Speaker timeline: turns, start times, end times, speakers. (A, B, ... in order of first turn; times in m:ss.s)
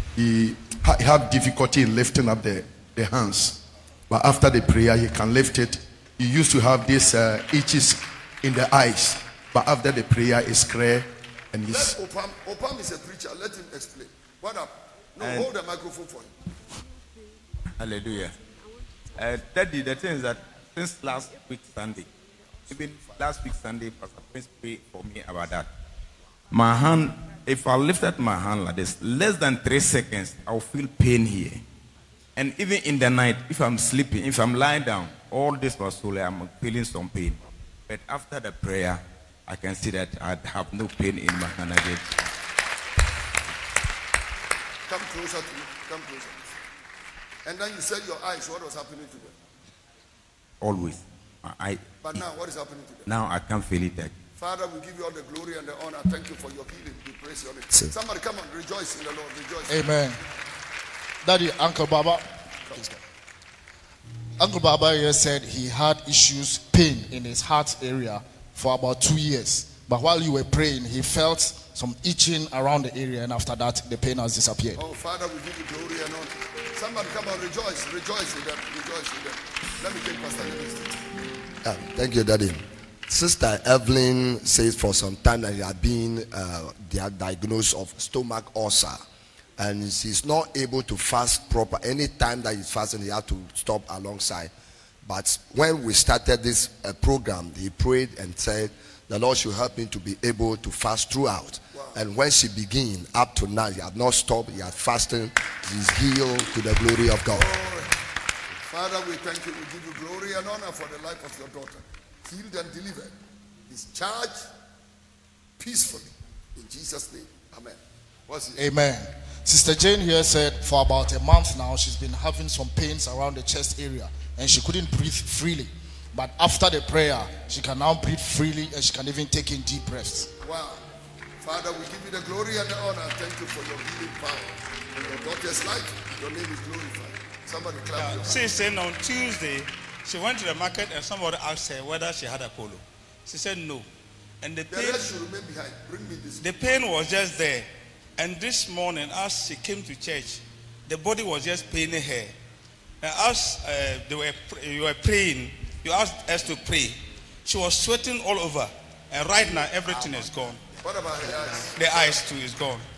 0:00.2-0:12.0 A
0:11.7-0:16.3 B
0:15.2-0:15.5 C
0:17.8-0:18.3 C
0:19.2-0:22.1 C
0:22.7-0:25.7 C
0:26.5-0:31.6 C
0:32.4-0:42.2 C
0:44.9-0:46.5 B
0:47.4-0:49.4 B
0:50.6-0:51.8 C
0:52.0-0:53.1 B
0:53.1-0:54.1 C
0:54.4-0:59.9 B
0:59.7-1:00.2 D
1:01.2-1:03.0 D
1:04.4-1:14.8 D
1:14.8-1:21.0 B
1:21.6-1:29.0 E
1:29.6-1:34.5 E
1:35.0-1:47.5 E
1:41.7-1:42.0 B
1:47.3-1:47.9 B
1:48.7-1:53.2 B
1:53.7-1:54.5 B
1:55.6-1:58.6 B
1:58.6-2:10.3 D
2:10.4-2:10.8 B
2:11.4-2:18.5 B
2:18.0-2:23.9 F
2:24.4-2:25.1 F
2:24.7-2:26.9 B
2:26.4-2:32.3 F
2:33.0-2:40.6 F
2:40.7-2:42.2 B
2:41.7-2:42.8 F